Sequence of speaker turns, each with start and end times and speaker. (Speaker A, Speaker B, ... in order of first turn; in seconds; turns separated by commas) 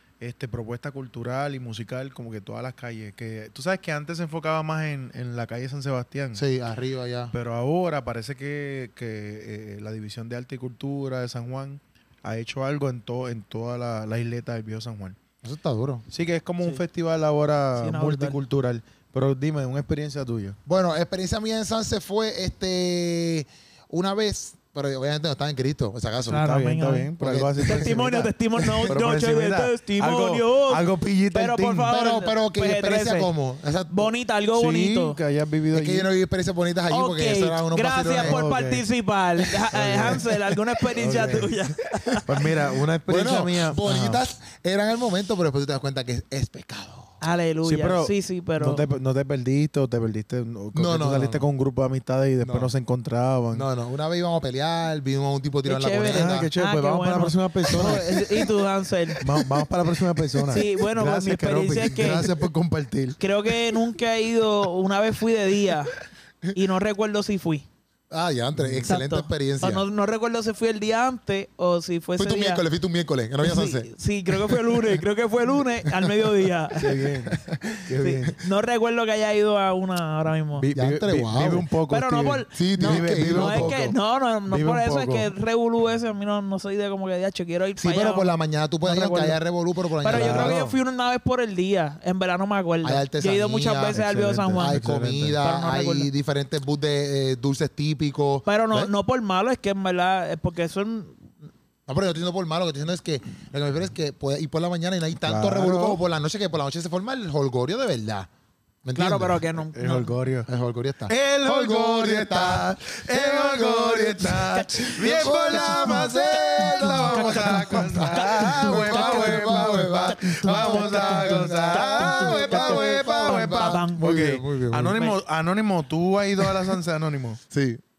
Speaker A: 0.2-6.5, Speaker B: 6.3-7.3, Speaker A: 7.3-15.2, Speaker B: 15.4-16.0, Speaker A: 16.1-20.6, Speaker C: 17.8-18.4, Speaker B: 20.6-26.4, Speaker C: 26.3-33.3, Speaker A: 26.3-31.9, Speaker B: 27.2-27.9, Speaker B: 31.9-34.1, Speaker C: 33.9-35.2, Speaker A: 34.5-36.1, Speaker B: 35.7-38.4, Speaker C: 36.9-42.4, Speaker A: 38.2-38.8, Speaker A: 39.7-40.3, Speaker B: 39.7-40.1, Speaker A: 41.0-41.5, Speaker B: 41.0-41.5, Speaker A: 42.2-44.2, Speaker B: 43.0-47.1, Speaker C: 47.2-48.9, Speaker A: 47.6-53.7, Speaker B: 50.7-51.5, Speaker B: 52.4-52.7, Speaker B: 53.5-56.5, Speaker C: 55.6-59.3, Speaker A: 56.0-58.2, Speaker B: 57.7-58.2, Speaker A: 59.2-63.5, Speaker C: 60.5-62.3, Speaker C: 63.2-66.0, Speaker C: 66.5-67.7, Speaker B: 68.1-69.8, Speaker A: 68.5-68.9, Speaker C: 68.8-72.6, Speaker B: 72.2-75.0, Speaker C: 73.4-76.9, Speaker A: 76.8-78.4, Speaker B: 77.3-77.8, Speaker C: 78.0-80.7, Speaker A: 80.5-85.3, Speaker B: 80.7-81.7, Speaker C: 81.9-88.3, Speaker B: 82.5-83.8, Speaker B: 87.8-90.7, Speaker C: 88.8-89.4, Speaker C: 90.0-94.8, Speaker A: 90.0-90.7, Speaker B: 92.8-94.0, Speaker A: 93.9-95.4, Speaker B: 94.6-98.9, Speaker C: 95.4-96.1, Speaker C: 98.4-101.2, Speaker B: 101.9-108.3, Speaker A: 105.2-106.0, Speaker B: 108.8-109.4, Speaker C: 108.9-110.2, Speaker A: 109.7-110.5, Speaker B: 110.5-125.0, Speaker A: 111.1-127.4, Speaker C: 114.5-124.1, Speaker B: 127.5-127.8